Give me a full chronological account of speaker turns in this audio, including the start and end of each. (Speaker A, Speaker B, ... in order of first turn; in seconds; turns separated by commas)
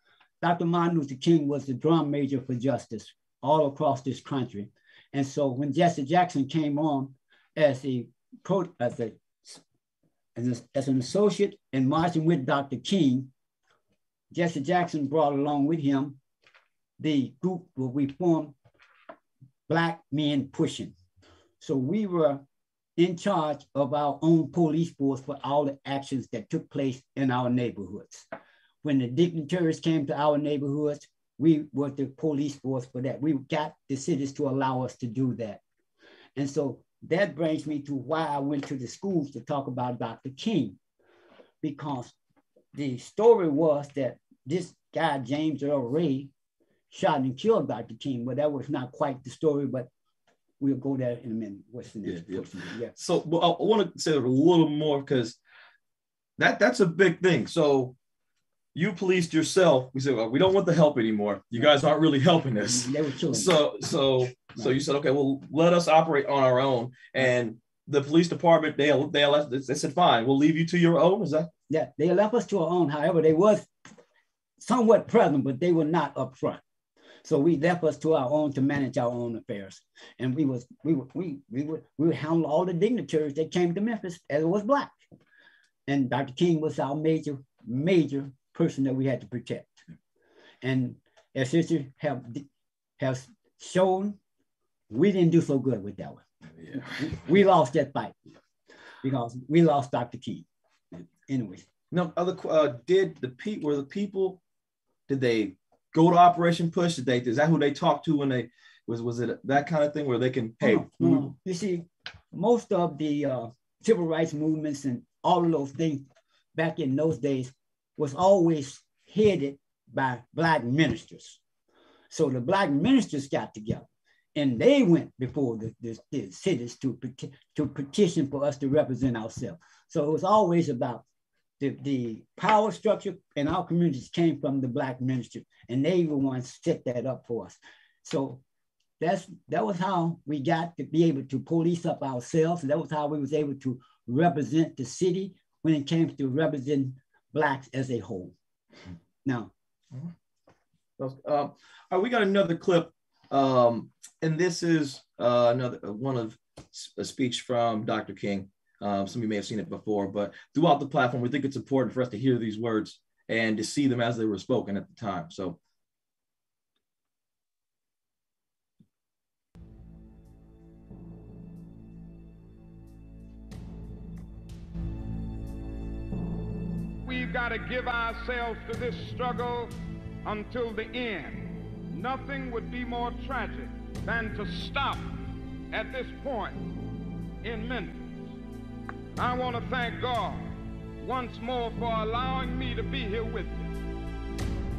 Speaker A: 0.4-9.6, Speaker A: 10.4-13.3, Speaker A: 14.3-16.2, Speaker A: 17.0-18.6, Speaker A: 19.7-20.9, Speaker A: 21.6-22.4, Speaker A: 23.0-28.3, Speaker A: 28.8-35.6, Speaker A: 36.4-40.8, Speaker A: 41.6-42.1, Speaker A: 42.7-46.3, Speaker A: 46.9-49.9, Speaker A: 50.6-52.9, Speaker B: 52.1-55.4, Speaker B: 56.4-58.0, Speaker B: 58.8-71.5, Speaker A: 62.6-63.6, Speaker A: 71.7-73.7, Speaker A: 74.6-76.6, Speaker A: 77.2-85.0, Speaker A: 85.9-89.8, Speaker A: 90.6-92.5, Speaker A: 93.0-94.2, Speaker A: 94.9-96.2, Speaker B: 96.7-97.0, Speaker A: 96.8-98.2, Speaker A: 99.0-101.7, Speaker B: 101.9-104.4, Speaker B: 105.1-111.3, Speaker A: 110.6-121.4, Speaker A: 122.1-131.0, Speaker A: 131.6-138.4, Speaker A: 139.0-148.3, Speaker A: 149.2-149.5, Speaker B: 151.0-165.6, Speaker C: 177.0-185.0, Speaker C: 185.7-186.7, Speaker C: 187.4-188.1, Speaker C: 189.2-190.5, Speaker C: 191.0-193.7